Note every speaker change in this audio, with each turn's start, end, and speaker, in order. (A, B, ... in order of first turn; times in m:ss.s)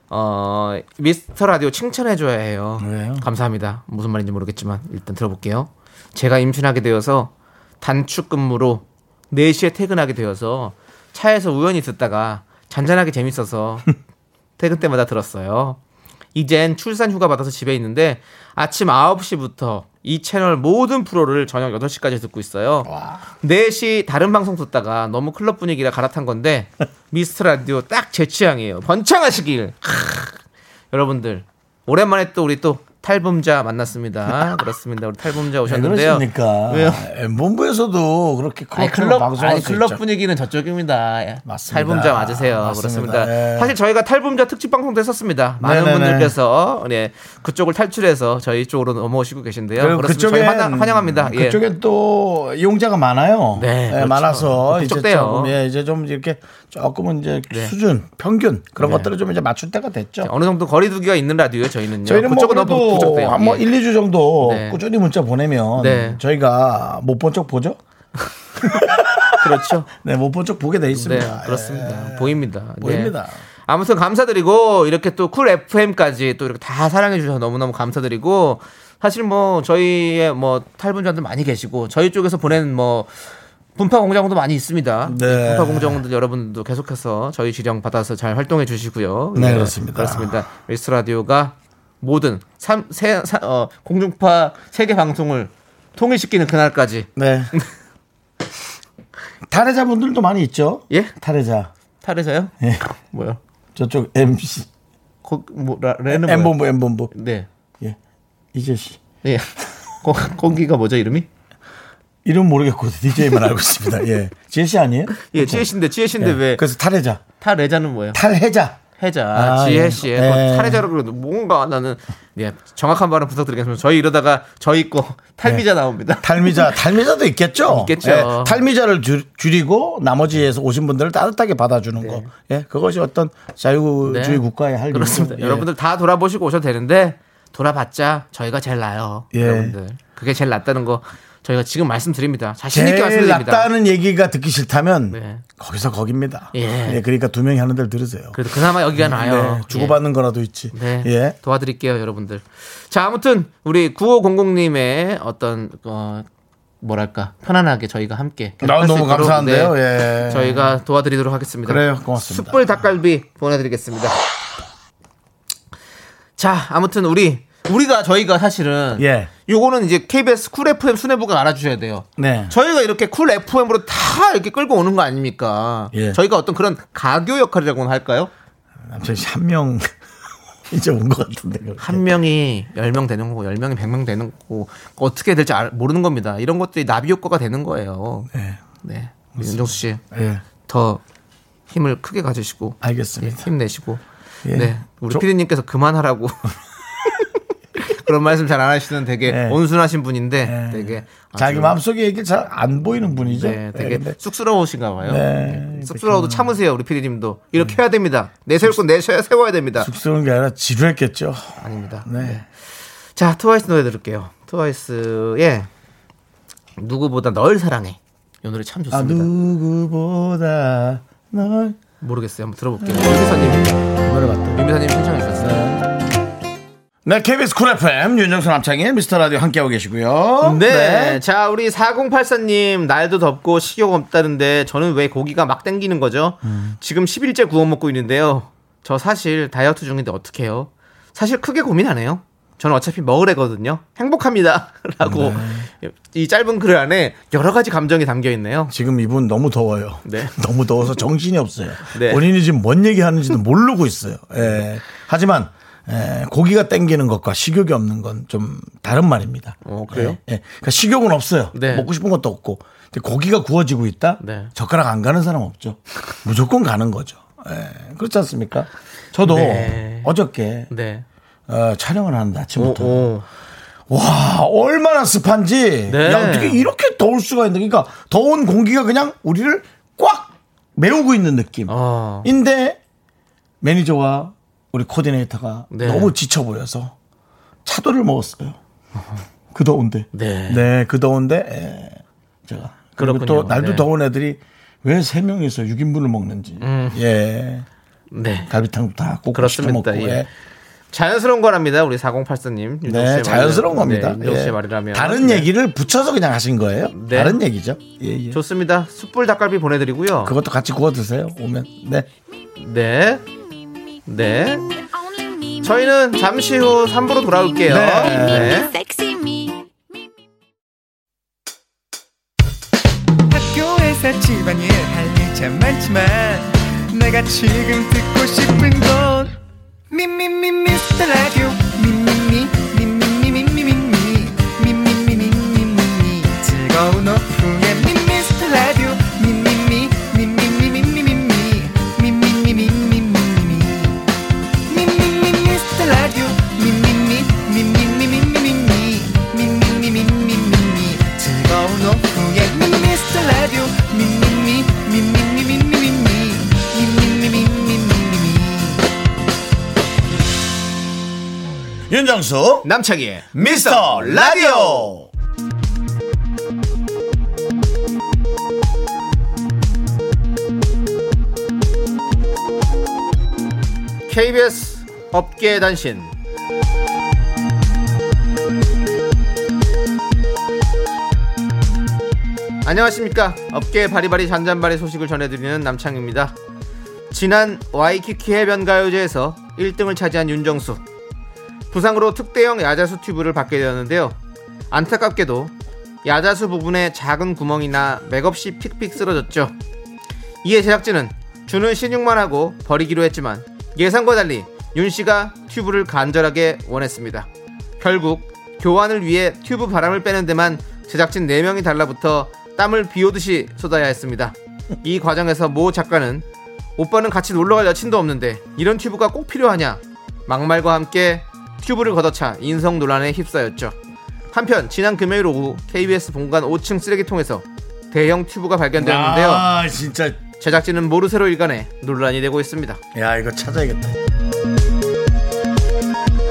0:00.1-0:13.9 A
0:02.8-0:03.2 B
0:14.6-0:15.8 A
0:16.4-0:22.9 A
0:22.9-0:23.2 B
0:23.4-0:30.4 A
0:30.9-0:37.1 A
0:35.6-0:40.0 B
0:38.8-0:51.6 A
0:41.5-0:43.8 B
0:45.6-0:46.4 B
0:49.8-1:00.3 B
0:53.6-0:55.6 A
0:58.8-0:59.1 A
1:00.2-1:03.6 A
1:02.0-1:07.8 B
1:04.4-1:04.8 A
1:05.8-1:06.2 A
1:08.6-1:13.4 B
1:09.3-1:09.9 A
1:10.9-1:13.1 A
1:13.7-1:23.2 A
1:23.8-1:37.7 A
1:25.1-1:26.0 B
1:29.3-1:30.4 B
1:37.2-1:37.5 B
1:39.5-1:41.7 B
1:42.0-1:43.4 A
1:43.8-1:44.7 B
1:45.2-1:46.6 A
1:46.1-1:47.1 B
1:47.1-1:47.5 A
1:48.5-1:49.0 B
1:49.2-1:51.3 A
1:52.2-1:55.7 B
1:55.2-1:56.6 A
1:56.2-1:57.2 B
1:57.4-1:58.2 A
1:58.1-1:58.8 B
1:59.0-2:06.8 A
1:59.3-2:00.8 B
2:06.2-2:15.7 B
2:07.6-2:08.6 A
2:12.0-2:12.3 A
2:14.0-2:23.7 A
2:19.3-2:19.8 B
2:22.7-2:28.4 B
2:25.1-2:25.4 A
2:26.5-2:27.0 A
2:28.3-2:30.0 A
2:29.0-2:31.4 B
2:30.7-2:36.3 A
2:36.8-2:44.2 A
2:38.6-2:40.8 B
2:41.6-2:42.8 B
2:46.4-2:58.3 A
2:49.0-2:49.3 B
2:52.2-2:52.5 B
2:55.9-2:56.2 B
2:58.8-2:59.9 B
3:00.7-3:02.1 B
3:01.8-3:08.3 A
3:08.3-3:08.6 B
3:08.8-3:10.0 A
3:09.4-3:10.4 B
3:10.6-3:11.0 A
3:11.7-3:16.5 A
3:12.8-3:13.5 B
3:14.4-3:15.2 B
3:17.8-3:21.8 A
3:19.2-3:19.6 B
3:20.4-3:24.2 B
3:23.3-3:29.9 A
3:25.1-3:26.5 B
3:29.8-3:32.4 B
3:31.6-3:35.7 A
3:36.8-3:39.3 A
3:38.9-3:41.8 B
3:42.0-3:43.9 A
3:42.8-3:44.6 B
3:44.5-3:45.7 A
3:45.4-3:45.8 B
3:47.0-3:51.2 B
3:50.4-4:08.7 A
3:56.4-3:56.8 B
4:05.0-4:05.7 B
4:08.7-4:30.7 B
4:10.0-4:10.4 A
4:11.8-4:12.2 A
4:19.6-4:20.2 A
4:21.5-4:21.9 A
4:24.2-4:24.5 A
4:29.2-4:30.1 A
4:30.7-4:31.1 A
4:31.5-4:33.1 B
4:32.6-4:33.3 A
4:33.9-4:42.8 B
4:35.9-4:36.7 A
4:41.7-4:42.3 A
4:43.6-4:46.9 B
4:45.7-4:46.1 A
4:47.6-4:48.6 B
4:49.5-4:57.7 B
4:50.1-4:50.7 A
4:53.0-4:53.9 A
4:56.6-4:57.0 A
4:58.1-4:58.5 A
4:58.5-5:00.3 B
4:59.3-5:00.3 A
5:00.9-5:05.5 A
5:02.8-5:08.4 B
5:06.9-5:07.4 A
5:08.3-5:10.4 A
5:10.2-5:12.1 B
5:12.6-5:13.2 A
5:14.1-5:14.6 A
5:15.0-5:16.0 C
5:15.6-5:18.7 A
5:17.7-5:18.6 B
5:18.0-5:19.7 C
5:23.3-5:29.4 D
5:29.9-5:44.0 D
5:44.7-5:58.8 D
6:01.9-6:02.7 B
6:02.6-6:04.9 A
6:03.4-6:05.1 B
6:14.1-6:16.1 A
6:22.6-6:26.4 A
6:27.1-6:30.8 A
6:31.7-6:34.2 A
6:34.7-6:35.5 A
6:36.0-6:39.6 A
6:40.4-6:47.3 A
6:47.8-6:56.2 A
6:56.8-7:03.8 A
7:04.3-7:09.5 A
7:08.8-7:10.2 B
7:10.4-7:12.8 A
7:12.9-7:14.0 B